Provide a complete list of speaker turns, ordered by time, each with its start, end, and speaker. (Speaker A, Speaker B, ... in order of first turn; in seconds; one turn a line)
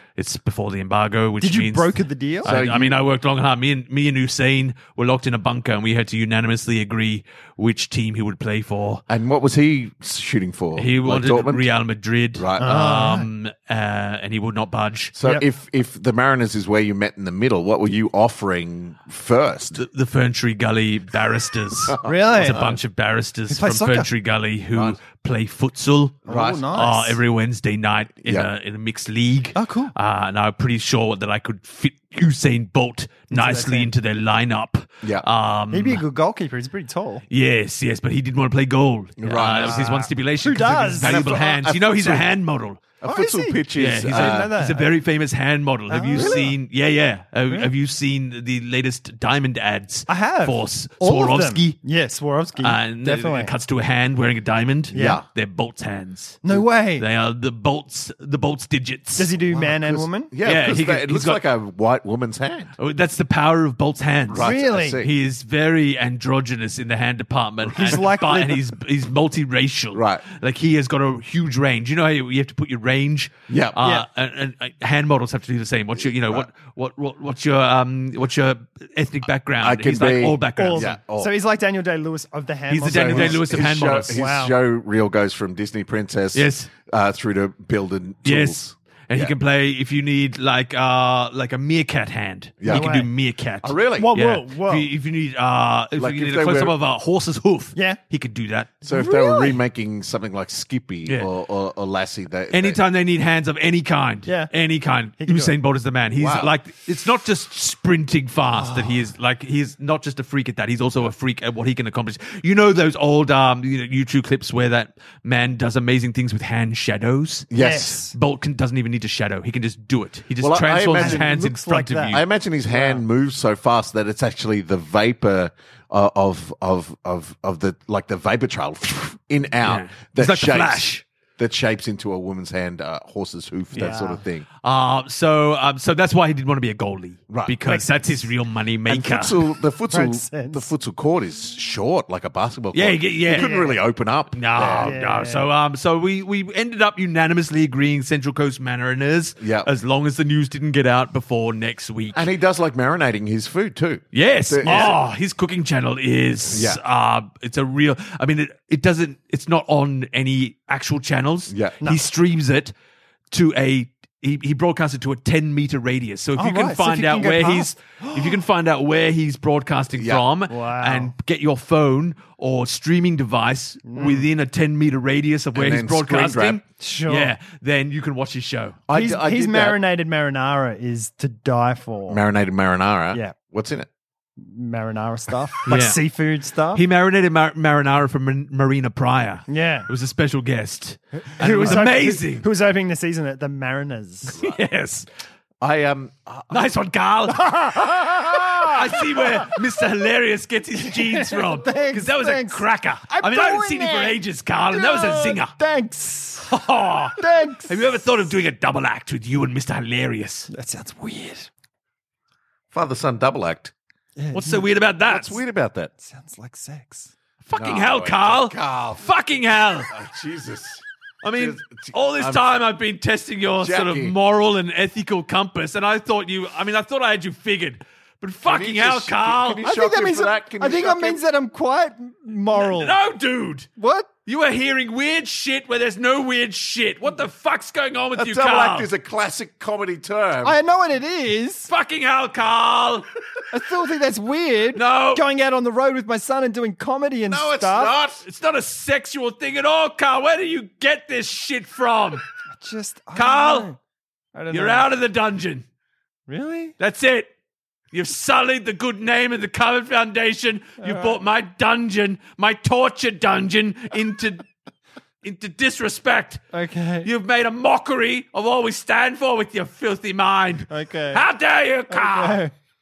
Speaker A: 0.2-9.0
Speaker B: 1.4-2.5
Speaker C: 2.4-3.0
Speaker C: 9.1-11.7
Speaker A: 10.8-15.1
Speaker C: 12.4-12.8
Speaker B: 12.6-13.3
Speaker C: 15.1-19.8
Speaker A: 19.7-36.0
Speaker C: 21.9-22.8
Speaker B: 22.0-22.7
Speaker B: 23.5-24.1
Speaker C: 24.7-25.0
Speaker C: 26.3-26.6
Speaker B: 26.3-27.2
Speaker B: 29.5-29.9
Speaker B: 33.3-33.9
Speaker B: 35.7-37.2
Speaker A: 37.3-42.8
Speaker C: 39.2-40.0
Speaker B: 39.4-41.3
Speaker C: 41.0-42.3
Speaker C: 43.0-44.5
Speaker B: 43.0-44.9
Speaker A: 43.8-51.8
Speaker B: 45.9-46.6
Speaker C: 46.1-46.4
Speaker B: 50.1-53.5
Speaker A: 52.6-59.3
Speaker B: 54.9-55.2
Speaker C: 54.9-55.2
Speaker B: 56.4-57.0
Speaker B: 59.2-60.3
Speaker C: 59.5-62.7
Speaker A: 60.4-61.4
Speaker A: 62.8-80.9
Speaker C: 64.3-65.1
Speaker B: 64.4-65.0
Speaker B: 67.7-68.7
Speaker C: 69.9-70.2
Speaker C: 73.5-73.8
Speaker B: 73.8-74.1
Speaker C: 79.6-81.3
Speaker B: 80.5-84.5
Speaker A: 82.7-84.2
Speaker C: 82.8-89.3
Speaker A: 86.3-86.7
Speaker A: 88.2-98.8
Speaker C: 92.6-92.9
Speaker B: 92.7-93.1
Speaker C: 93.6-94.1
Speaker B: 94.0-94.9
Speaker C: 96.0-96.7
Speaker C: 98.8-102.8
Speaker B: 98.9-99.6
Speaker A: 102.5-122.2
Speaker B: 104.2-104.5
Speaker B: 105.2-105.5
Speaker C: 106.2-106.5
Speaker B: 108.6-109.0
Speaker C: 117.5-118.0
Speaker B: 117.5-118.1
Speaker C: 120.4-121.3
Speaker B: 121.0-122.2
Speaker C: 122.1-134.4
Speaker B: 122.7-123.0
Speaker A: 129.6-131.0
Speaker A: 133.7-134.1
Speaker B: 133.7-134.2
Speaker A: 134.6-139.5
Speaker C: 137.3-137.6
Speaker C: 138.9-144.9
Speaker B: 139.9-140.7
Speaker A: 142.7-143.5
Speaker B: 143.3-143.8
Speaker A: 144.3-152.3
Speaker B: 144.8-145.5
Speaker C: 149.4-149.7
Speaker C: 152.1-155.0
Speaker A: 154.1-162.7
Speaker B: 154.6-155.0
Speaker C: 156.5-156.8
Speaker C: 161.5-161.8
Speaker A: 163.3-178.8
Speaker B: 166.4-168.4
Speaker C: 169.9-170.3
Speaker B: 170.5-171.1
Speaker B: 173.9-174.3
Speaker C: 175.5-176.6
Speaker B: 176.8-177.3
Speaker C: 178.9-179.8
Speaker B: 178.9-182.2
Speaker C: 182.1-183.9
Speaker B: 184.4-186.8
Speaker A: 185.7-186.0
Speaker A: 186.7-192.4
Speaker B: 189.5-189.9
Speaker B: 191.4-194.4
Speaker A: 194.3-195.1
Speaker C: 195.6-196.7
Speaker A: 196.5-197.5
Speaker B: 197.3-199.6
Speaker A: 198.6-205.5
Speaker B: 200.8-204.2
Speaker B: 204.7-206.5
Speaker A: 206.5-210.5
Speaker B: 207.2-207.9
Speaker B: 210.5-211.5
Speaker C: 212.7-213.7
Speaker B: 214.2-215.1
Speaker A: 214.3-215.4
Speaker C: 215.1-215.9
Speaker B: 216.0-217.1
Speaker A: 217.4-219.9
Speaker C: 217.5-219.1
Speaker C: 219.9-222.5
Speaker A: 221.2-229.6
Speaker C: 223.6-224.2
Speaker C: 228.4-231.2
Speaker B: 229.6-233.0
Speaker A: 232.5-233.7
Speaker B: 233.8-234.1
Speaker A: 234.2-238.9
Speaker C: 238.2-240.6
Speaker B: 240.4-241.7
Speaker A: 241.7-243.1
Speaker B: 243.5-247.9
Speaker A: 244.7-245.2
Speaker C: 247.3-248.2
Speaker A: 248.2-252.2
Speaker B: 252.5-253.8
Speaker A: 253.1-253.7
Speaker B: 254.3-254.9
Speaker A: 254.5-255.6
Speaker B: 256.3-256.7
Speaker A: 256.8-257.3
Speaker A: 257.9-264.5
Speaker B: 260.8-261.2
Speaker A: 265.2-266.4
Speaker B: 266.5-267.1
Speaker A: 267.0-272.4
Speaker B: 270.7-271.2
Speaker B: 271.9-272.5